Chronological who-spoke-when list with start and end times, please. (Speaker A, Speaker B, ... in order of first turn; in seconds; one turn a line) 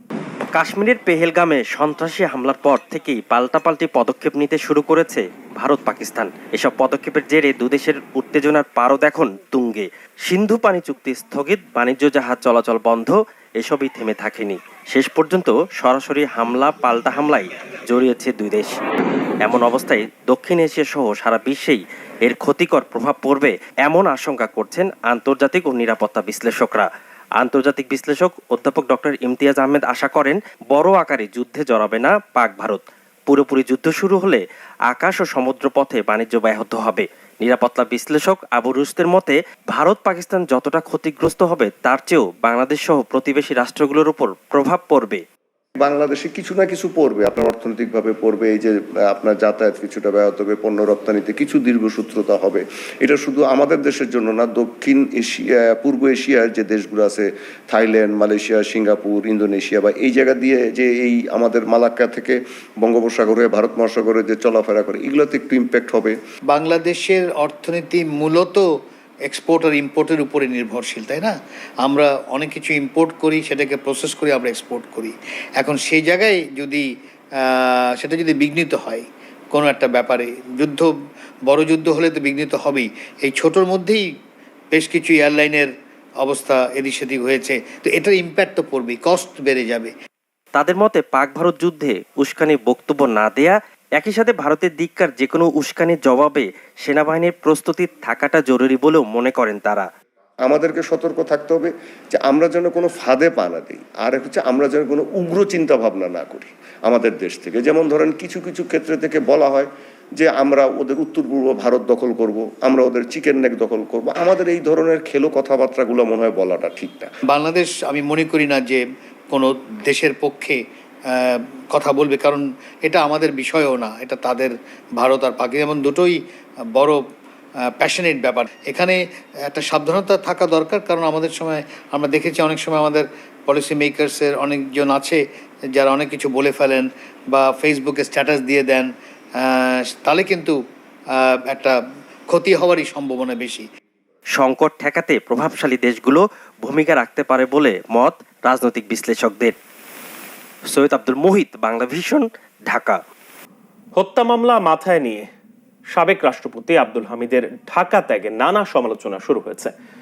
Speaker A: 0.5-18.7
Speaker A: 19.4-45.2
Speaker B: 45.8-66.2
Speaker C: 66.5-68.6
Speaker C: 69.2-80.9
Speaker C: 81.5-84.0
Speaker C: 84.7-85.7
Speaker C: 86.2-89.9
Speaker A: 90.5-99.9
Speaker B: 100.4-117.1
Speaker C: 117.3-120.6
Speaker C: 121.1-126.2
Speaker C: 126.7-127.0
Speaker C: 127.8-135.2
Speaker C: 135.7-138.9
Speaker C: 139.4-140.6
Speaker C: 141.2-141.8
Speaker C: 142.3-143.7
Speaker A: 144.3-149.5
Speaker A: 150.7-153.0
Speaker D: 153.9-155.2
Speaker D: 155.9-159.7